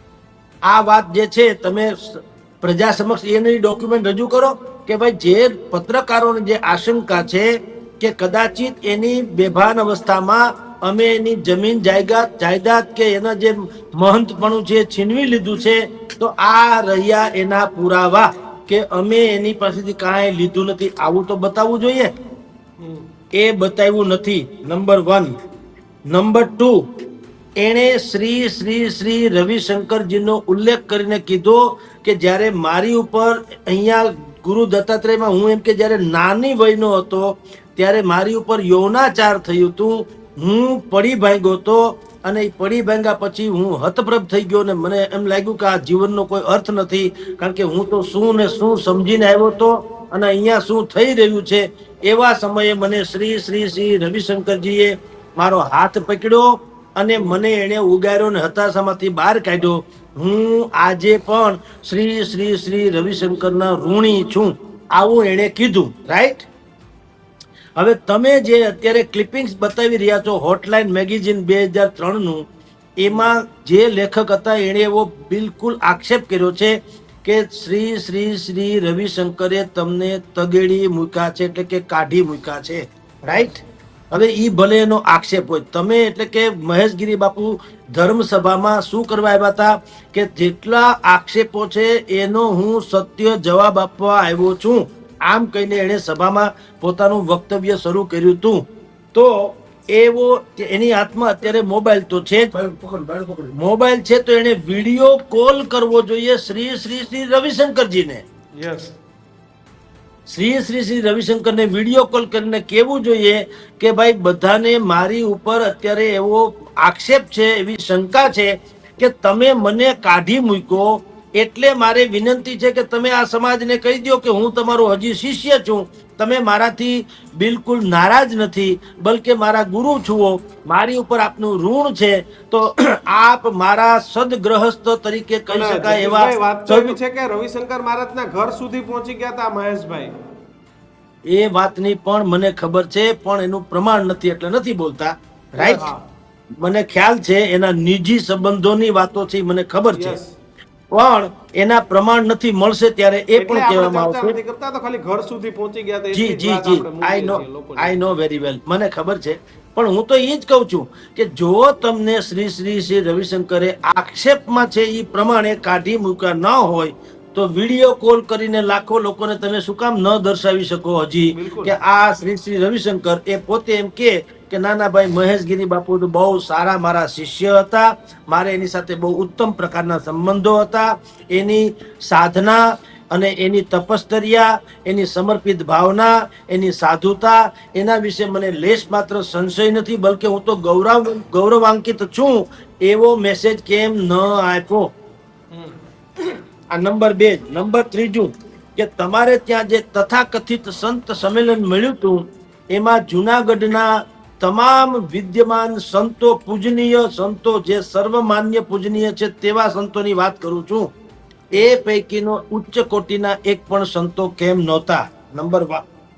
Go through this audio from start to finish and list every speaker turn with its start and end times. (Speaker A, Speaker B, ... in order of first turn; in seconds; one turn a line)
Speaker A: 0.7-22.1
Speaker A: 23.3-25.4
Speaker A: 26.1-26.9
Speaker A: 27.6-66.5
Speaker A: 67.8-72.5
Speaker A: 73.0-83.5
Speaker B: 83.3-83.6
Speaker A: 84.1-108.2
Speaker B: 108.5-108.9
Speaker A: 110.3-137.0
Speaker B: 135.5-140.1
Speaker A: 141.3-145.9
Speaker B: 145.6-146.0
Speaker A: 146.6-150.2
Speaker B: 149.9-150.3
Speaker A: 150.9-154.4
Speaker B: 153.3-158.2
Speaker A: 156.1-194.9
Speaker B: 171.3-171.8
Speaker A: 196.7-210.9
Speaker A: 211.5-215.8